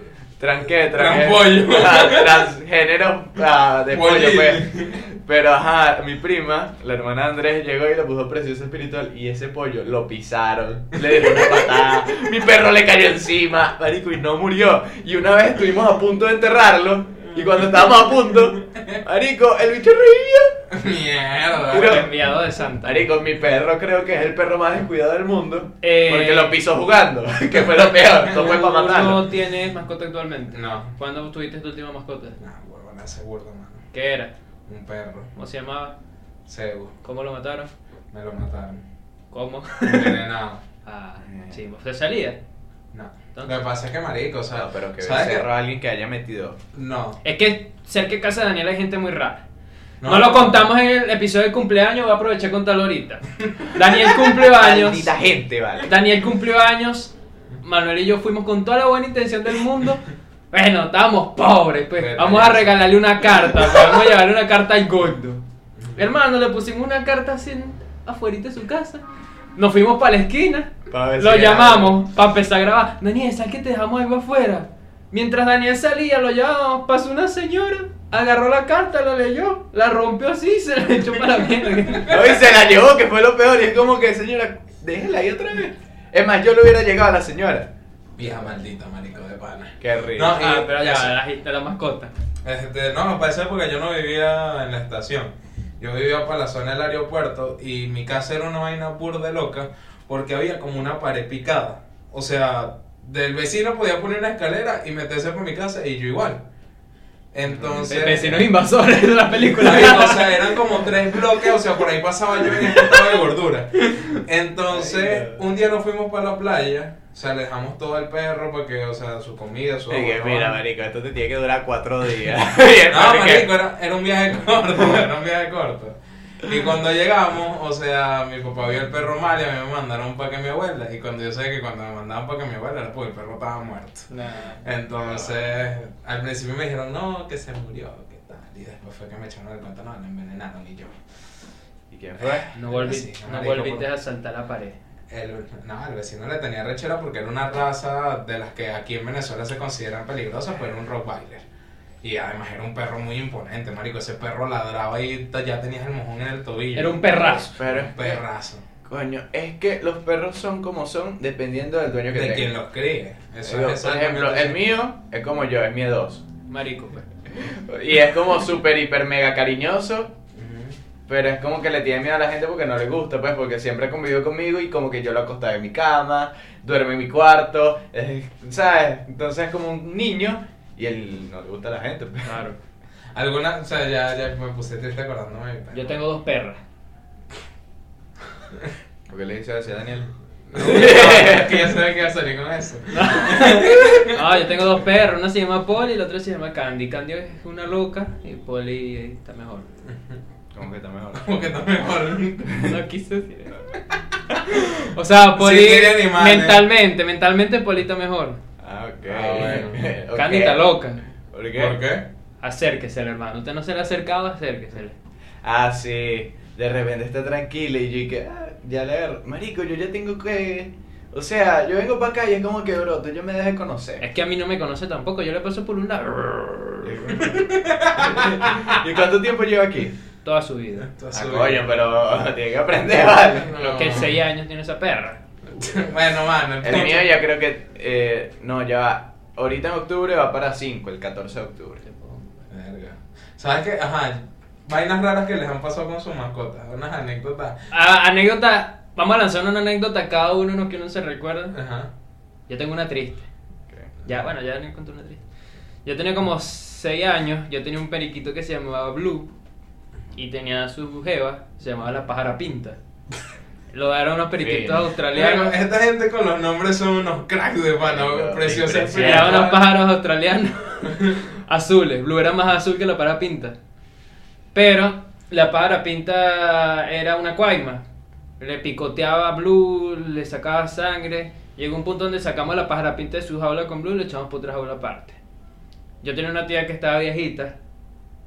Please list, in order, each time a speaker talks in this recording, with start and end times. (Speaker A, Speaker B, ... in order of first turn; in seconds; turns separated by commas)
Speaker A: 0.4-4.7, Speaker B: 0.9-2.5, Speaker B: 3.9-5.0, Speaker A: 5.2-20.6, Speaker B: 11.1-11.7, Speaker B: 17.3-17.7, Speaker B: 18.7-19.0, Speaker B: 20.7-22.1, Speaker A: 21.7-22.1, Speaker C: 21.7-23.1, Speaker A: 22.8-29.3, Speaker C: 25.8-26.6, Speaker C: 28.3-32.4, Speaker B: 30.5-30.9, Speaker B: 32.4-33.8, Speaker C: 33.9-34.3, Speaker B: 34.7-35.3, Speaker C: 35.3-35.9, Speaker B: 36.5-36.9, Speaker C: 37.0-37.7, Speaker B: 38.1-38.8, Speaker C: 39.3-40.2, Speaker B: 39.8-40.6, Speaker C: 40.8-42.4, Speaker A: 41.2-41.6, Speaker B: 42.9-45.5, Speaker C: 43.3-43.6, Speaker A: 44.5-46.6, Speaker B: 46.7-47.2, Speaker C: 47.2-49.4, Speaker B: 50.0-50.7, Speaker C: 50.0-55.1, Speaker A: 54.4-55.9, Speaker C: 55.8-65.4, Speaker B: 62.0-62.8, Speaker C: 65.9-69.0, Speaker C: 69.5-82.4, Speaker A: 70.9-72.0, Speaker A: 82.1-88.5, Speaker B: 88.2-91.2, Speaker A: 89.8-90.4, Speaker C: 90.3-92.1, Speaker B: 92.4-106.4, Speaker B: 107.3-108.5, Speaker A: 107.5-107.9, Speaker C: 107.9-110.5, Speaker B: 109.6-120.6, Speaker C: 112.5-113.2, Speaker C: 113.8-114.2, Speaker A: 114.7-115.4, Speaker A: 119.9-123.5, Speaker B: 122.9-134.1, Speaker C: 134.1-134.6, Speaker B: 134.6-140.9, Speaker A: 135.0-135.5, Speaker A: 141.9-142.5, Speaker B: 142.2-143.9, Speaker C: 142.5-144.8, Speaker B: 145.1-151.4, Speaker B: 152.0-158.6, Speaker C: 156.7-157.6, Speaker A: 157.4-158.2, Speaker A: 158.8-162.5, Speaker B: 162.1-164.6, Speaker A: 163.4-166.2, Speaker C: 166.5-167.1, Speaker A: 167.3-170.1, Speaker B: 170.3-170.8, Speaker A: 171.1-182.4, Speaker C: 182.2-182.6, Speaker B: 183.1-186.0, Speaker C: 185.7-186.6, Speaker A: 189.1-191.7, Speaker B: 190.5-194.2, Speaker C: 190.6-191.1, Speaker C: 192.9-199.7, Speaker A: 200.5-201.3, Speaker B: 201.1-202.8, Speaker C: 202.6-203.6, Speaker C: 204.6-208.4, Speaker B: 205.3-206.6, Speaker A: 208.6-210.7, Speaker B: 209.1-209.8, Speaker C: 210.1-211.0, Speaker A: 211.3-211.8, Speaker B: 211.5-212.0, Speaker C: 212.4-214.9, Speaker A: 215.4-224.0, Speaker C: 224.0-226.9, Speaker A: 226.8-229.9, Speaker B: 227.2-228.8, Speaker C: 230.2-230.9, Speaker B: 230.8-231.7, Speaker A: 231.1-234.0, Speaker B: 233.4-234.2, Speaker C: 233.6-235.2, Speaker B: 235.5-237.1, Speaker A: 236.6-241.8, Speaker C: 241.8-242.2, Speaker B: 242.5-247.6, Speaker C: 247.7-251.5, Speaker B: 251.5-251.9, Speaker C: 252.5-253.2, Speaker A: 253.7-253.9, Speaker C: 254.0-255.2, Speaker C: 255.8-259.3, Speaker C: 260.1-262.8, Speaker C: 263.7-265.6, Speaker A: 264.4-264.9, Speaker B: 265.1-269.6, Speaker A: 267.8-269.5, Speaker C: 268.9-273.6, Speaker B: 270.9-271.2, Speaker C: 274.5-277.8, Speaker C: 278.4-285.2, Speaker C: 286.0-287.5